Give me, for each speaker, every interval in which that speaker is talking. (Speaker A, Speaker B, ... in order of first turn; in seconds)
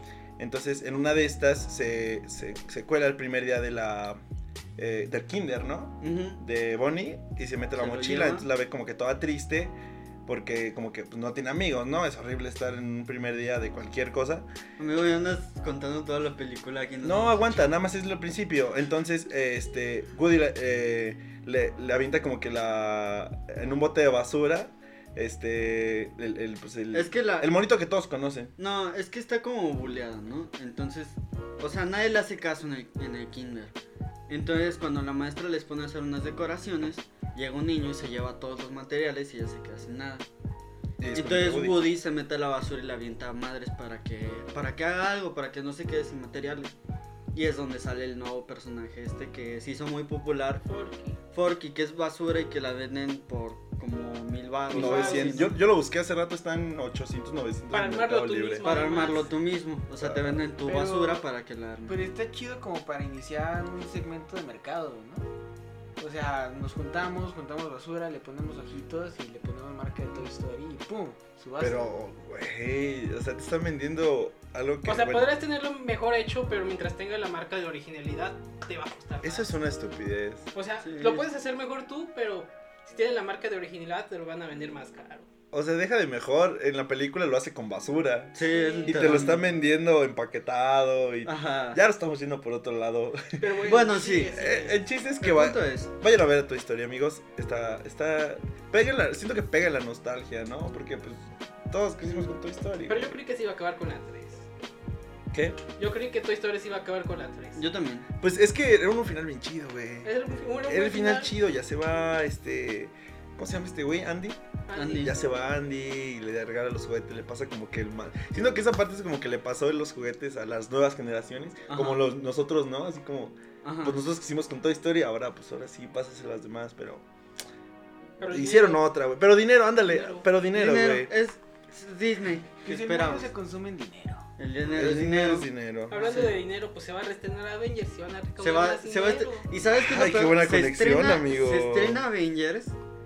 Speaker A: 0.4-4.2, 4.8-9.8, 10.3-14.5, 17.0-28.5, 41.0-41.9, 54.7-58.7, 60.0-60.4, 71.6-75.3, 79.2-80.5, 85.5-88.3, 88.9-93.4, 94.3-103.2, 105.3-105.6, 108.2-110.1, 110.7-114.4, 115.0-127.0, 128.3-131.1, 134.7-136.0, 139.8-142.0
Speaker B: 6.0-6.4, 7.8-8.5, 14.8-17.8, 26.9-27.5, 28.6-33.8, 34.3-40.3, 41.1-46.8, 47.3-50.6, 51.3-55.6, 58.6-62.1, 80.8-81.3, 88.3-89.5, 91.2-91.8, 93.6-94.3, 95.2-95.9, 107.5-108.1, 114.7-115.2, 121.7-122.1, 123.6-124.0, 130.5-133.3, 134.4-136.3, 138.4-142.8
Speaker C: 50.6-51.2, 54.7-55.5, 57.7-59.3, 74.8-79.5, 80.5-85.3, 88.5-89.3, 93.4-94.8, 102.9-104.5, 105.8-107.6, 110.0-111.3, 114.7-115.1, 128.2-128.8, 129.9-130.3, 135.9-139.5
Speaker D: 60.6-61.3, 61.9-65.3, 66.0-71.9, 132.7-134.3